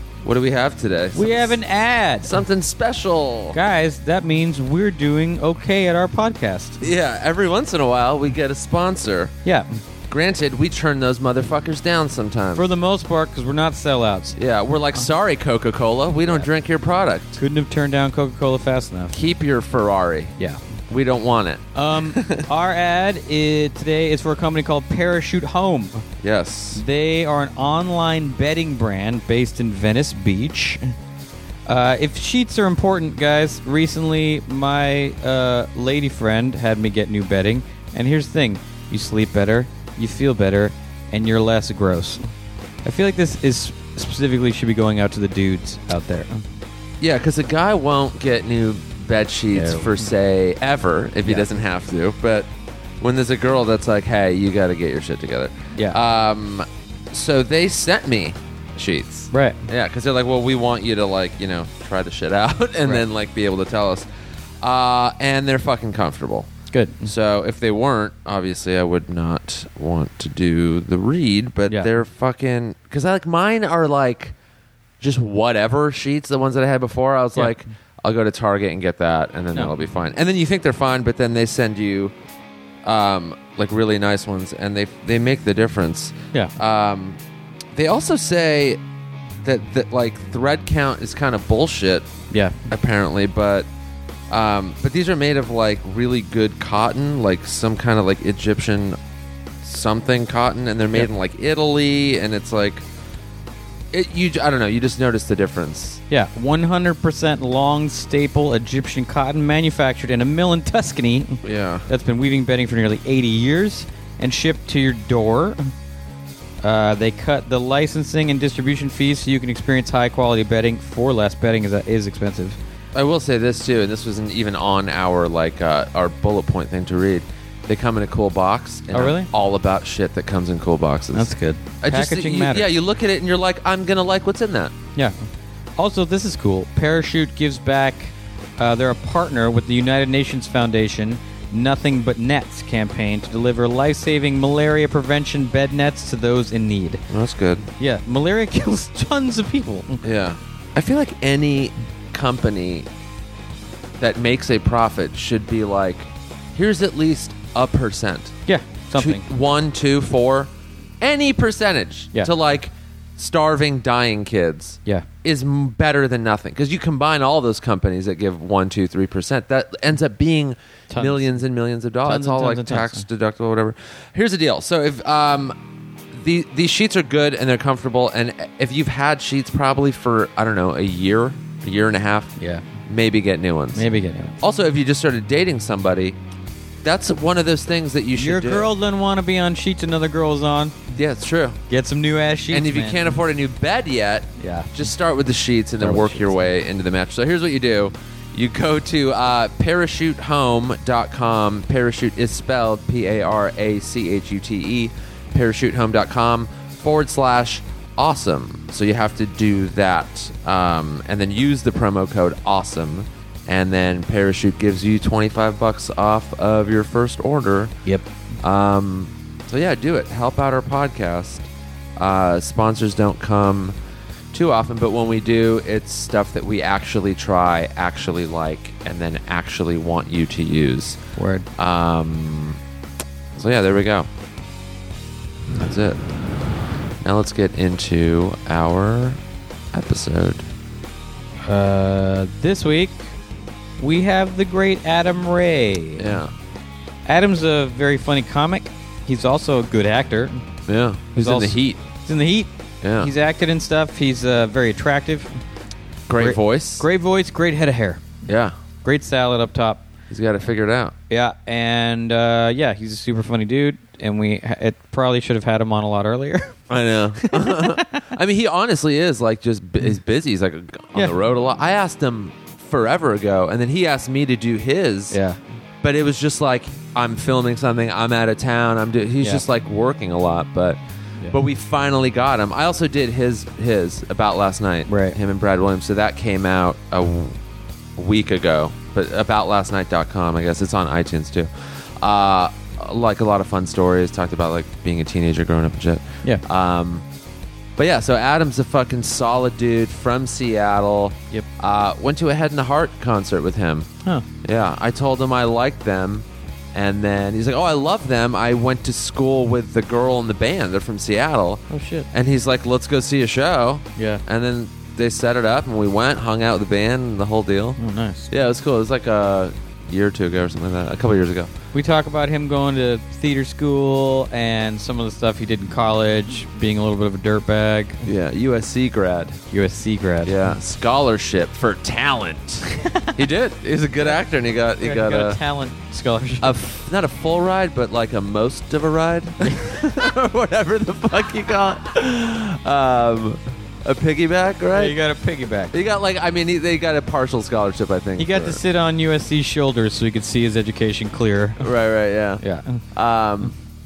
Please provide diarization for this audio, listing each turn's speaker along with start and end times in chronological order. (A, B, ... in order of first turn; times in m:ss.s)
0:00.2-0:01.6 A
0:01.1-0:02.4 B
0:02.2-0:03.6 A
0:03.5-0:06.8 B
0:06.8-0:09.3 A
0:09.4-0:09.8 B
0:10.1-0:12.7 A
0:12.5-0:14.4 B
0:14.4-0:17.4 A
0:17.4-0:19.1 B
0:19.1-0:20.3 A
0:20.9-0:22.4 A
0:21.7-0:26.0 B
0:26.2-0:26.8 A
0:26.7-0:30.9 B
0:31.7-0:42.2 B
0:42.8-0:46.4 B
0:47.0-0:52.5 A
0:49.5-0:49.9 B
0:53.0-1:04.0 A
0:59.3-0:59.6 B
1:04.6-1:06.5 A
1:06.7-1:07.1 B
1:07.0-1:14.3 A
1:15.0-1:22.1 A
1:22.8-1:27.2 A
1:27.7-1:28.8 A
1:29.4-1:32.1 A
1:32.3-1:32.6 B
1:32.6-1:33.7 A
1:34.3-1:39.0 A
1:39.6-1:42.8 A
1:43.9-1:46.0 A
1:46.1-1:55.7 B
1:51.4-1:51.8 A
1:56.6-2:02.6 B
2:02.9-2:14.7 A
2:08.9-2:09.3 B
2:11.1-2:12.7 B
2:15.8-2:27.0 B
2:27.1-2:27.7 A
2:27.8-2:30.0 B
2:30.0-2:32.9 A
2:34.0-2:38.4 A
2:38.4-2:39.2 B
2:39.0-2:40.5 A
2:41.0-2:55.5 A
2:50.9-2:51.4 B
2:52.0-2:53.0 B
2:56.1-3:02.4 A
3:02.4-3:02.6 B
3:02.9-3:03.8 A
3:03.7-3:04.4 B
3:04.4-3:06.2 A
3:06.8-3:08.7 A
3:08.2-3:10.7 B
3:10.9-3:11.6 A
3:11.7-3:13.1 B
3:12.5-3:37.7 A
3:14.4-3:14.7 B
3:15.8-3:16.3 B
3:38.4-3:43.7 A
3:44.3-3:51.0 A
3:51.2-3:51.4 B
3:51.6-3:52.6 A
3:53.4-3:54.1 A
3:55.5-3:56.0 A
3:57.0-3:59.2 A
3:59.7-4:00.4 A
4:01.4-4:03.0 B
4:03.8-4:06.2 B
4:06.0-4:06.3 A
4:07.0-4:10.4 B
4:10.7-4:11.8 A
4:11.2-4:15.3 B
4:12.8-4:13.1 A
4:16.1-4:16.8 A
4:16.2-4:18.1 B
4:18.3-4:18.5 A
4:18.8-4:19.8 B
4:20.1-4:20.9 A
4:21.1-4:26.5 B
4:26.7-4:35.2 A
4:27.2-4:28.0 B
4:35.1-4:35.4 B
4:35.8-4:40.8 A
4:41.3-4:47.4 A
4:44.9-4:45.2 B
4:48.0-4:57.0 A
4:57.8-5:03.9 A
5:04.4-5:21.5 A
5:11.7-5:12.1 B
5:14.0-5:14.2 B
5:17.8-5:18.3 B
5:21.7-5:28.0 B
5:28.0-5:29.4 A
5:29.5-5:30.4 B
5:30.2-5:35.4 A
5:32.8-5:33.2 B
5:34.8-5:36.6 B
5:36.4-5:45.0 A
5:39.4-5:39.7 B
5:44.7-5:45.7 B
5:45.7-5:48.6 A
5:48.2-5:51.6 B
5:51.6-5:53.5 A
5:52.4-5:52.8 B